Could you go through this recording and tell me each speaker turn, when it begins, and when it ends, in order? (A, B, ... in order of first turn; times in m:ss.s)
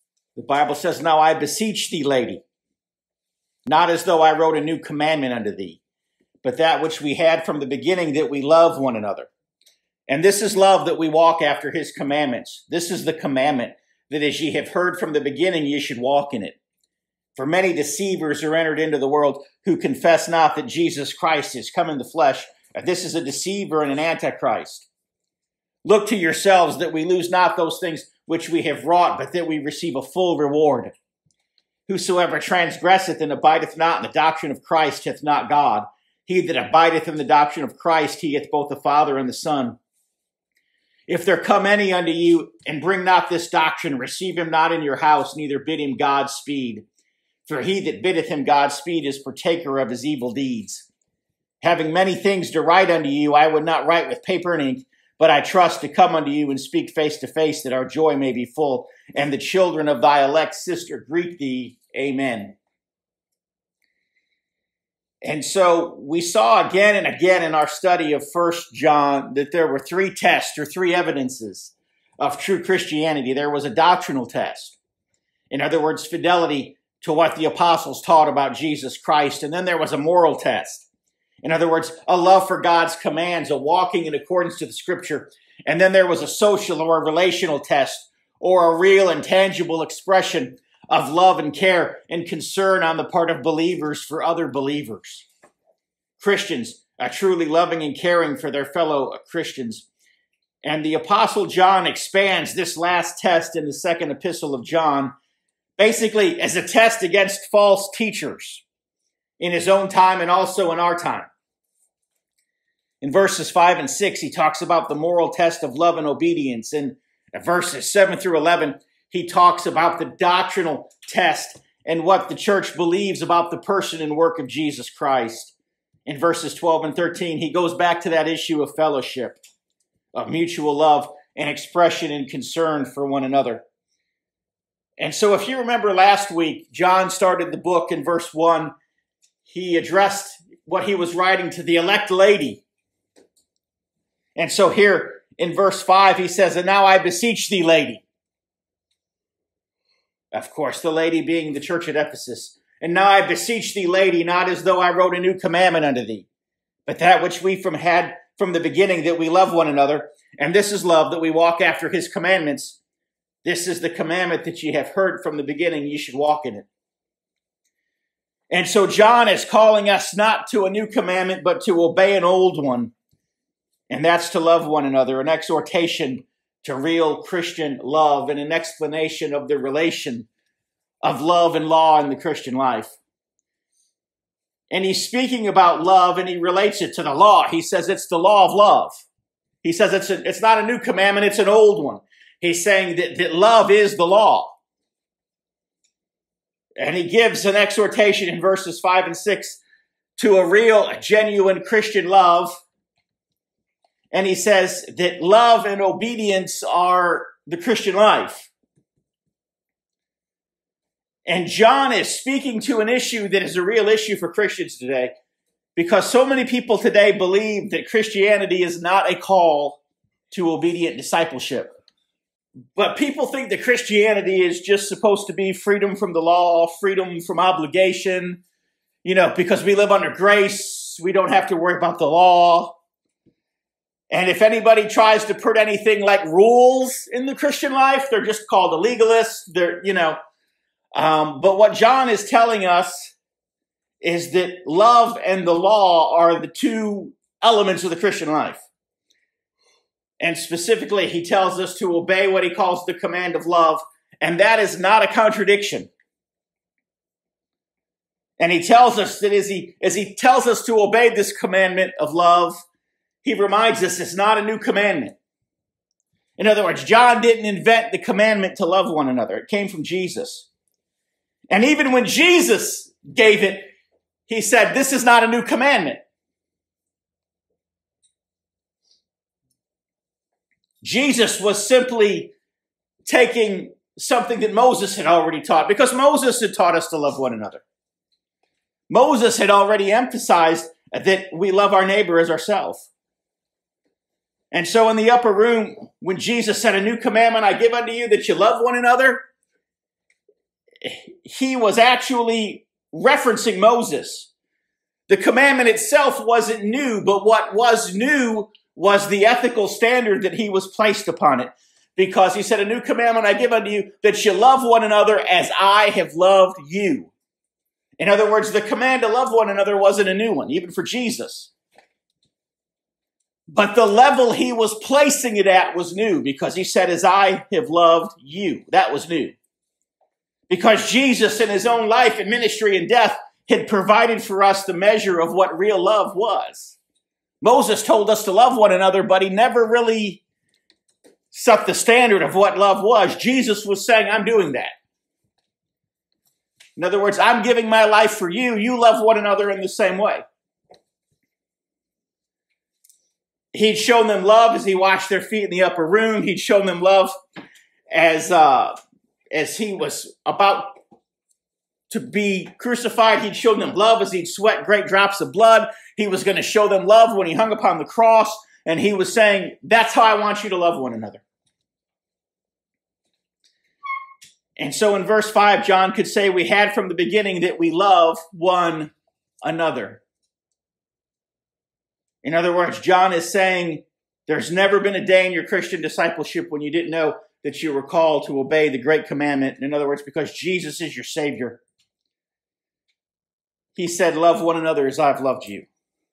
0:00.4-0:02.4 A
0:03.6-0:05.8 A
0:06.4-0:09.3 A
0:10.1-0:16.6 A
0:17.3-0:24.9 A
0:25.8-0:30.9 A
0:31.9-0:39.8 A
0:41.1-0:46.8 A
0:47.5-0:50.9 A
0:51.6-1:02.5 A
1:05.2-1:14.8 A
1:15.5-1:20.9 A
1:21.4-1:35.3 A
1:36.2-1:39.9 A
1:40.6-1:45.1 A
1:45.8-1:48.6 A
1:49.4-1:51.3 A
1:53.0-2:05.5 A
2:06.0-2:09.4 A
2:10.1-2:13.6 A
2:15.0-2:18.7 A
2:19.5-2:22.6 A
2:24.4-2:28.0 A
2:30.3-2:36.2 A
2:36.8-2:42.8 A
2:43.4-2:46.7 A
2:48.5-2:52.9 A
2:53.9-3:00.3 A
3:01.0-3:03.0 A
3:04.7-3:09.0 A
3:09.6-3:14.6 A
3:16.8-3:19.6 A
3:20.2-3:22.6 A
3:24.1-3:28.5 A
3:31.2-3:35.1 A
3:35.8-3:39.8 A
3:40.3-3:41.7 A
3:42.7-3:48.4 A
3:49.0-3:52.8 A
3:54.1-4:00.2 A
4:00.9-4:03.1 A
4:04.0-4:08.6 A
4:10.2-4:15.9 A
4:18.4-4:22.6 A
4:23.2-4:25.2 A
4:26.4-4:30.5 A
4:31.5-4:33.7 A
4:34.3-4:36.0 A
4:40.8-4:42.3 A
4:43.0-4:47.6 A
4:48.9-4:52.9 A
4:54.5-4:59.2 A
5:00.8-5:04.3 A
5:05.1-5:17.1 A
5:18.0-5:21.5 A
5:23.5-5:29.4 A
5:30.5-5:36.8 A
5:37.4-5:40.2 A
5:41.3-5:44.7 A
5:46.8-5:50.2 A
5:53.5-5:57.1 A
5:57.9-5:58.7 A
5:59.3-6:00.8 A
6:01.9-6:11.2 A
6:14.6-6:18.9 A
6:19.4-6:20.0 A
6:22.2-6:31.6 A
6:33.7-6:35.7 A